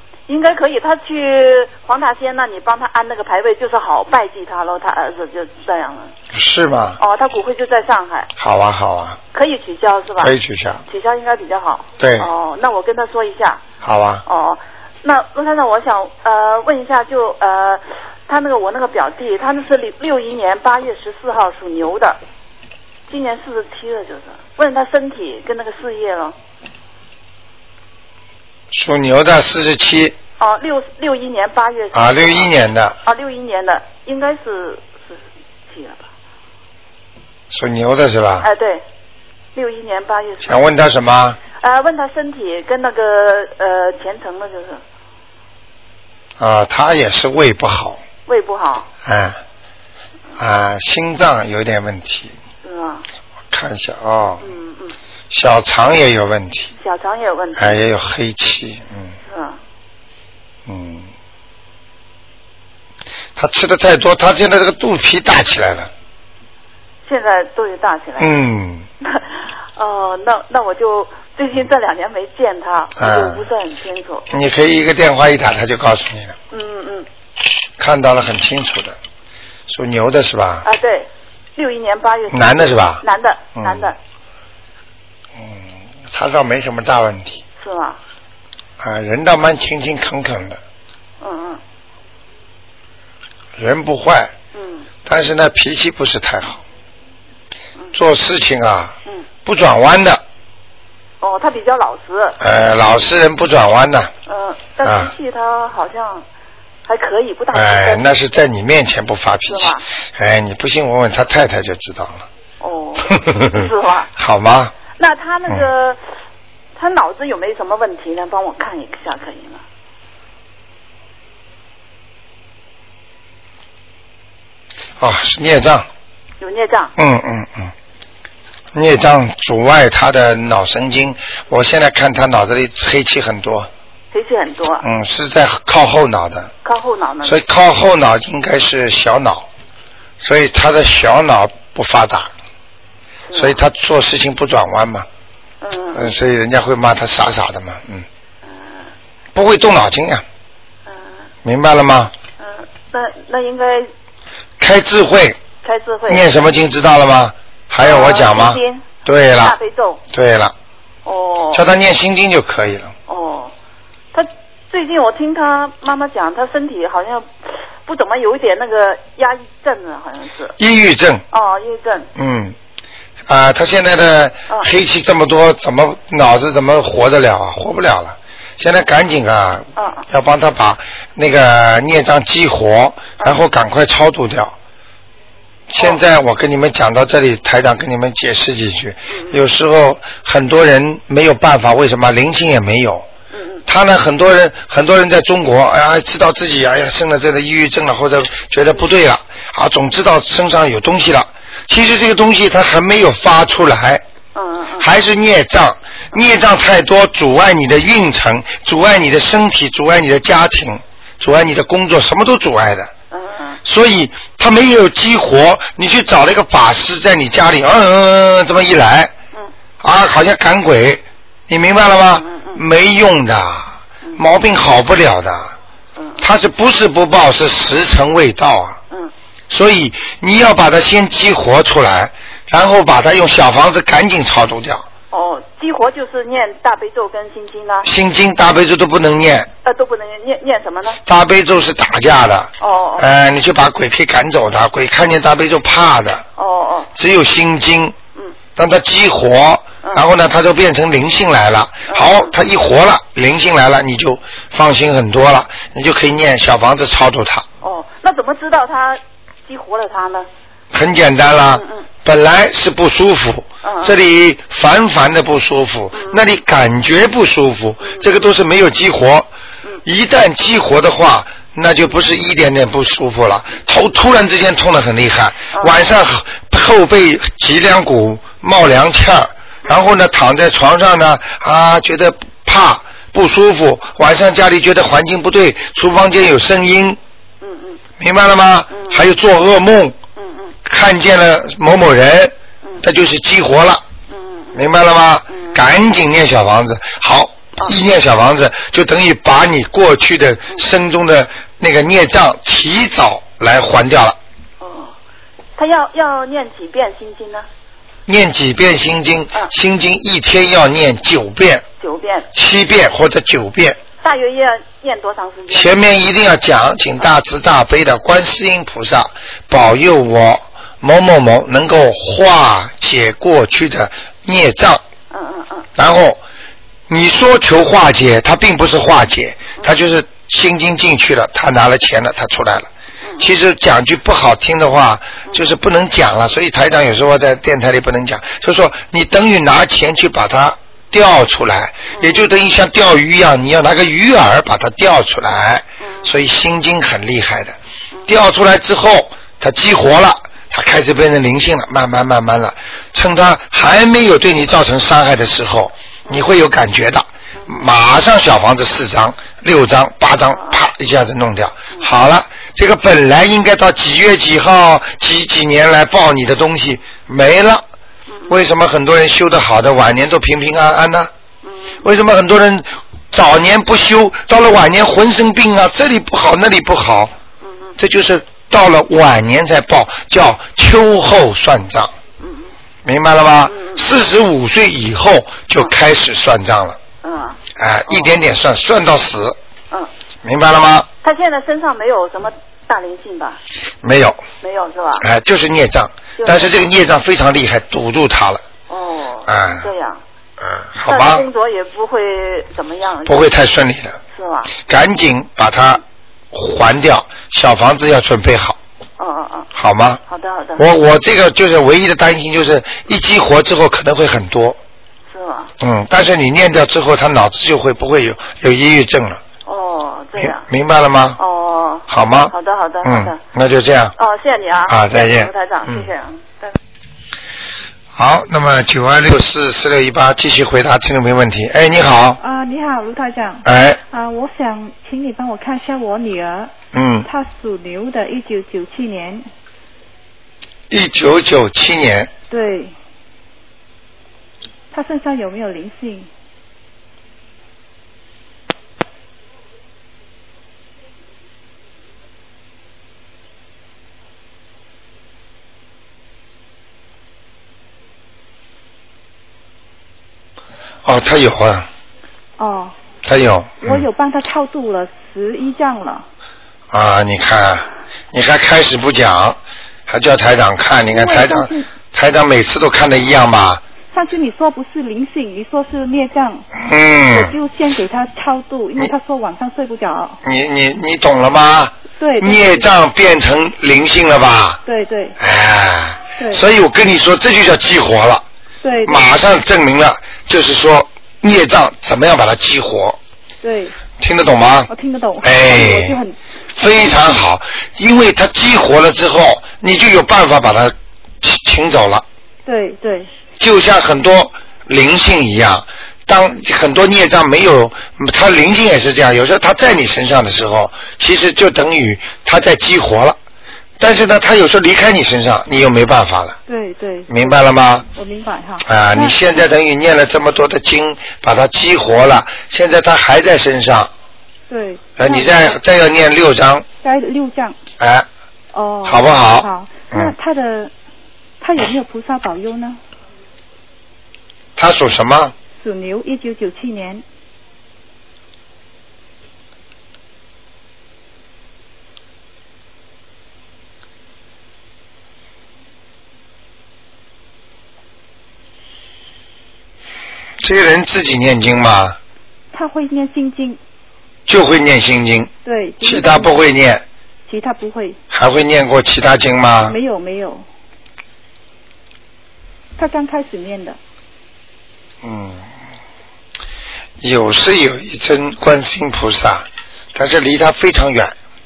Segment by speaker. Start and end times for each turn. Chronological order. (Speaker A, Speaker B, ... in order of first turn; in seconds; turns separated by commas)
Speaker A: 0.3-6.1, Speaker B: 6.3-7.0, Speaker A: 7.0-8.3, Speaker B: 8.4-9.2, Speaker A: 9.3-10.3, Speaker B: 10.2-10.8, Speaker A: 10.9-13.6, Speaker B: 12.0-12.3, Speaker B: 13.8-14.2, Speaker A: 14.2-22.2, Speaker A: 23.1-26.3, Speaker B: 28.7-30.1, Speaker A: 30.4-32.5, Speaker B: 31.9-33.0, Speaker A: 33.0-36.0, Speaker B: 37.5-38.5, Speaker A: 38.4-38.8, Speaker A: 39.5-40.6, Speaker B: 40.4-41.4, Speaker A: 41.5-44.8, Speaker B: 46.4-48.0, Speaker A: 48.3-48.9, Speaker B: 49.0-49.4, Speaker B: 50.4-52.3, Speaker A: 52.6-53.0, Speaker B: 53.5-54.4, Speaker A: 54.4-55.0, Speaker B: 55.3-56.7, Speaker A: 56.8-57.8, Speaker B: 57.6-59.1, Speaker A: 59.3-59.6, Speaker B: 60.6-61.1, Speaker B: 63.4-65.9, Speaker A: 67.0-68.3, Speaker B: 68.2-68.9, Speaker A: 69.0-74.2, Speaker B: 73.0-73.5, Speaker B: 74.3-76.3, Speaker A: 76.5-77.1, Speaker B: 77.8-79.0, Speaker B: 79.7-80.7, Speaker A: 80.6-84.0, Speaker B: 82.3-83.0, Speaker B: 83.5-83.9, Speaker B: 85.4-87.4, Speaker A: 87.6-88.0, Speaker B: 88.8-90.6, Speaker A: 91.2-91.6, Speaker B: 93.6-94.3, Speaker A: 94.5-94.9, Speaker B: 95.0-96.6, Speaker B: 97.9-98.9, Speaker B: 99.5-100.2, Speaker A: 101.2-102.4, Speaker B: 102.4-104.1, Speaker A: 104.3-106.2, Speaker B: 104.8-105.1, Speaker A: 106.8-108.1, Speaker B: 107.5-112.2, Speaker A: 109.4-109.8, Speaker A: 112.6-114.1, Speaker B: 113.0-113.6, Speaker B: 114.2-114.7, Speaker A: 114.9-116.0, Speaker A: 116.7-119.6, Speaker B: 125.0-125.9, Speaker A: 126.4-126.9, Speaker B: 127.0-127.7, Speaker B: 128.7-133.7, Speaker A: 134.1-134.8, Speaker B: 134.8-136.5, Speaker A: 136.6-137.4, Speaker B: 137.2-139.5, Speaker B: 140.2-142.3, Speaker A: 143.3-143.6, Speaker B: 143.3-145.1, Speaker A: 145.6-146.2, Speaker B: 145.9-148.0, Speaker A: 148.5-148.9, Speaker B: 149.3-150.2, Speaker A: 150.9-151.2, Speaker B: 151.4-152.1, Speaker A: 152.4-153.9, Speaker B: 154.6-155.4, Speaker A: 155.6-156.2, Speaker B: 156.1-159.6, Speaker A: 157.8-160.0, Speaker B: 160.1-160.5, Speaker A: 161.0-161.7, Speaker B: 161.5-162.9, Speaker A: 163.1-163.5, Speaker A: 164.1-170.5, Speaker B: 170.6-171.2, Speaker A: 171.3-172.1, Speaker B: 172.2-172.5, Speaker B: 173.3-184.5, Speaker A: 179.8-180.1, Speaker B: 185.7-193.1, Speaker A: 185.8-186.0, Speaker A: 189.1-189.4, Speaker A: 193.3-193.6, Speaker B: 193.7-204.0, Speaker A: 204.3-204.9, Speaker B: 204.8-212.9, Speaker A: 213.1-213.6, Speaker B: 213.6-219.1, Speaker B: 219.8-225.5, Speaker A: 222.2-222.6, Speaker A: 226.0-226.2, Speaker B: 226.2-228.8, Speaker B: 229.5-234.8, Speaker A: 235.1-237.9, Speaker B: 237.8-239.5, Speaker A: 239.6-241.0, Speaker B: 241.1-246.2, Speaker A: 242.6-243.1, Speaker A: 246.4-246.9, Speaker B: 246.9-247.9, Speaker B: 248.6-257.4, Speaker A: 251.9-252.3, Speaker A: 257.6-260.3, Speaker B: 260.7-269.3, Speaker A: 261.5-261.8, Speaker A: 263.6-263.9, Speaker A: 265.9-266.2, Speaker B: 269.8-287.0, Speaker A: 275.5-275.8, Speaker A: 287.4-287.8, Speaker B: 288.0-289.9, Speaker A: 288.7-289.0, Speaker A: 290.2-290.5, Speaker B: 290.6-293.8, Speaker A: 294.1-294.6, Speaker B: 294.5-304.2, Speaker A: 295.3-295.6, Speaker A: 304.6-304.9, Speaker A: 305.6-307.5, Speaker B: 308.1-311.6, Speaker A: 311.8-312.3, Speaker B: 312.3-313.8, Speaker A: 314.0-315.8, Speaker B: 315.5-324.8, Speaker A: 325.1-325.7, Speaker B: 325.8-326.2, Speaker B: 326.9-347.6, Speaker A: 341.9-342.2, Speaker B: 348.1-367.6, Speaker A: 360.3-360.6, Speaker A: 368.1-368.4, Speaker B: 368.3-371.1, Speaker A: 371.4-371.8, Speaker B: 371.8-377.1, Speaker B: 377.8-381.9, Speaker A: 382.2-382.5, Speaker B: 382.8-386.8, Speaker A: 383.5-383.9, Speaker A: 387.0-388.2, Speaker B: 387.6-389.4, Speaker B: 390.2-390.9, Speaker A: 391.0-393.4, Speaker B: 393.8-394.2, Speaker A: 394.4-395.0, Speaker B: 395.0-398.4, Speaker A: 396.2-396.5, Speaker A: 398.7-400.0, Speaker B: 399.3-399.7, Speaker B: 400.4-401.3, Speaker A: 400.9-403.3, Speaker B: 403.0-404.0, Speaker A: 404.1-404.5, Speaker B: 404.6-405.8, Speaker B: 406.3-408.6, Speaker A: 409.0-409.5, Speaker B: 409.5-410.0, Speaker A: 410.1-410.6, Speaker B: 410.6-414.6, Speaker A: 415.1-415.5, Speaker B: 415.6-419.2, Speaker A: 419.4-420.4, Speaker B: 420.2-421.2, Speaker A: 421.2-423.2, Speaker B: 421.9-423.9, Speaker A: 424.0-426.6, Speaker B: 424.7-425.9, Speaker B: 427.9-432.2, Speaker C: 432.2-436.5, Speaker B: 433.4-433.8, Speaker B: 436.7-437.1, Speaker C: 437.0-439.3, Speaker B: 440.7-442.1, Speaker C: 442.3-442.7, Speaker C: 444.7-446.1, Speaker B: 460.8-461.7, Speaker C: 462.4-462.7, Speaker B: 463.0-463.8, Speaker C: 463.6-466.1, Speaker B: 466.7-473.6, Speaker C: 470.9-471.7, Speaker C: 473.9-476.5, Speaker B: 476.5-477.3, Speaker C: 477.1-480.2, Speaker B: 480.2-484.6, Speaker C: 481.9-482.7, Speaker C: 484.6-485.1, Speaker B: 485.2-488.2, Speaker C: 486.2-486.4, Speaker C: 488.6-489.1, Speaker B: 488.9-493.0, Speaker C: 493.4-493.8, Speaker B: 494.0-494.7, Speaker C: 494.7-497.0, Speaker B: 495.2-496.0, Speaker B: 496.6-502.0, Speaker C: 502.4-503.1, Speaker B: 503.4-513.2, Speaker B: 513.8-516.4, Speaker C: 516.5-517.4, Speaker B: 517.1-517.9, Speaker C: 517.9-519.1, Speaker B: 518.6-523.9, Speaker C: 524.5-525.6, Speaker B: 525.0-526.6, Speaker C: 526.8-527.6, Speaker B: 527.8-528.0, Speaker C: 528.5-530.7, Speaker B: 528.9-530.1, Speaker C: 531.4-532.8, Speaker B: 534.5-535.3, Speaker C: 535.6-537.0, Speaker B: 550.4-552.0, Speaker C: 552.5-553.6, Speaker B: 554.3-555.3, Speaker C: 555.4-556.4, Speaker B: 555.8-556.8, Speaker C: 557.3-558.0, Speaker B: 558.1-559.8, Speaker C: 559.6-560.4, Speaker C: 562.8-563.8, Speaker B: 565.0-565.5, Speaker B: 567.0-571.1